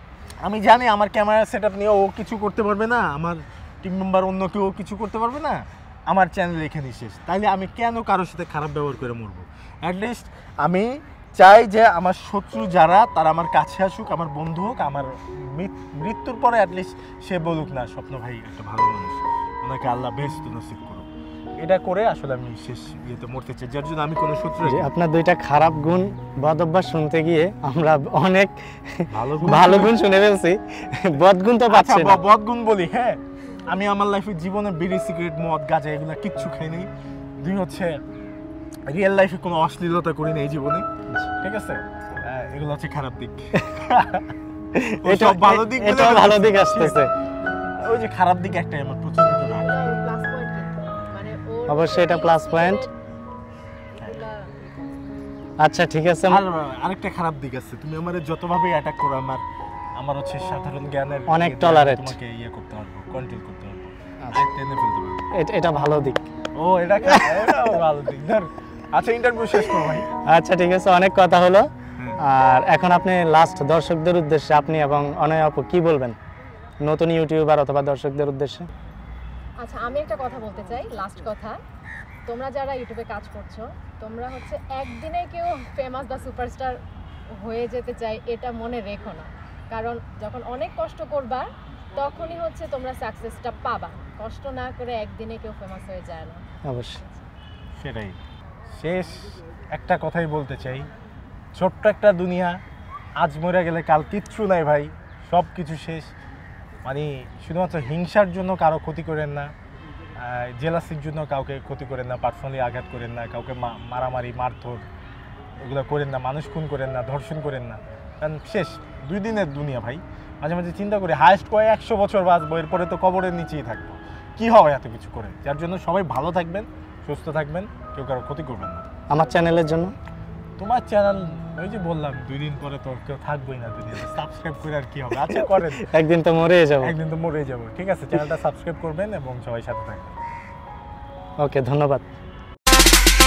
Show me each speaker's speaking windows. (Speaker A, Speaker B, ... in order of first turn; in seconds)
Speaker A: 0.4-24.9, 29.1-29.9, 31.7-36.9, 37.4-38.0, 38.9-40.9, 41.4-44.3, 45.0-47.0, 47.8-49.7, 56.3-59.4, 60.0-65.3, 66.5-70.1, 97.8-98.2, 98.7-100.9, 101.5-102.6, 103.2-106.1, 106.8-109.5, 110.2-114.8, 115.6-128.9, 130.6-135.9, 136.8-140.2
Speaker B: 24.6-32.2, 44.8-47.1, 51.7-52.8, 55.6-56.4, 61.3-62.2, 65.3-66.3, 67.1-67.8, 70.3-71.7, 72.2-76.2, 76.8-78.7, 96.7-97.0, 129.1-129.9, 135.3-136.9, 141.4-142.0
Speaker C: 49.5-52.9, 54.0-54.6, 79.6-81.6, 82.3-86.8, 87.3-96.4